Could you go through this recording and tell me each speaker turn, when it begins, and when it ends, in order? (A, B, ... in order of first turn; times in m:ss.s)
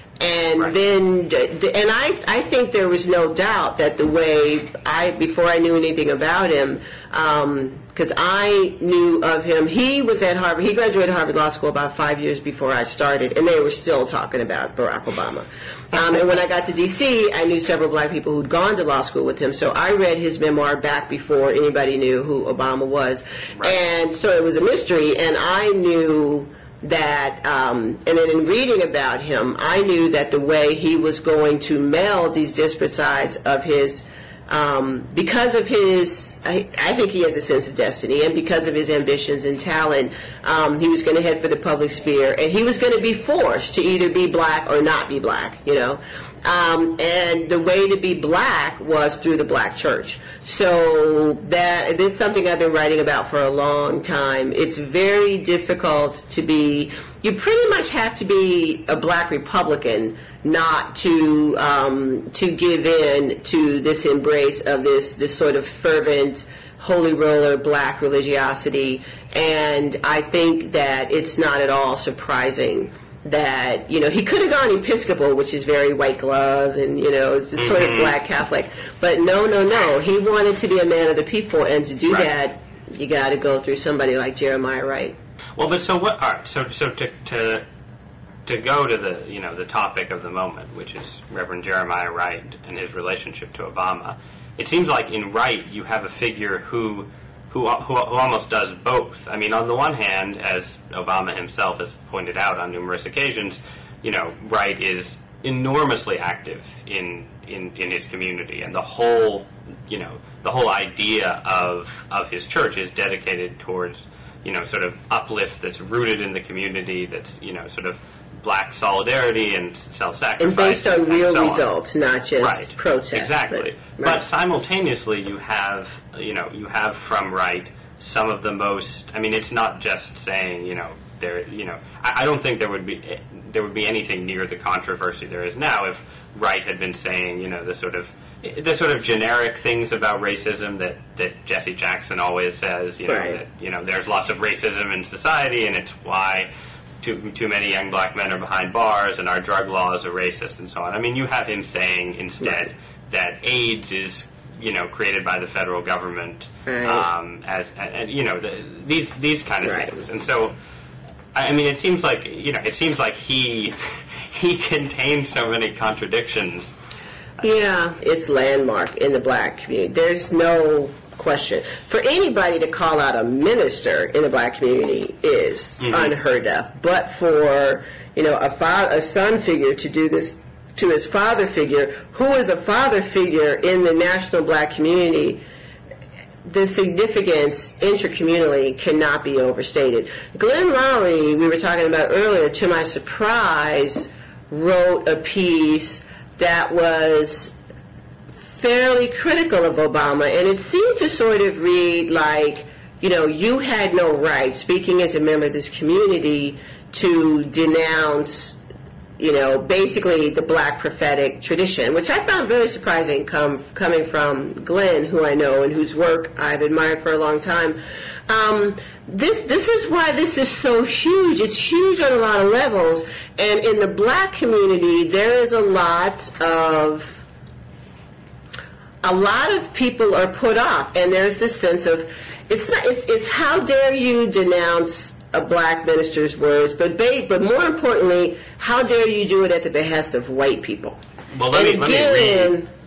0:00.2-1:25.2 A
1:17.6-1:18.1 B
1:25.6-1:27.6 B
1:28.5-2:01.7 B
2:00.4-2:04.2 A
2:02.4-2:26.5 B
2:23.1-2:23.4 A
2:27.0-2:40.5 B
2:36.7-2:37.1 A
2:39.6-2:40.0 A
2:41.4-2:46.7 B
2:47.4-3:05.4 A
2:55.8-2:56.1 B
3:06.4-3:17.5 A
3:18.4-3:28.6 A
3:29.2-3:37.8 A
3:38.3-3:47.2 A
3:49.0-4:01.0 A
4:01.3-4:02.6 B
4:01.5-4:02.7 A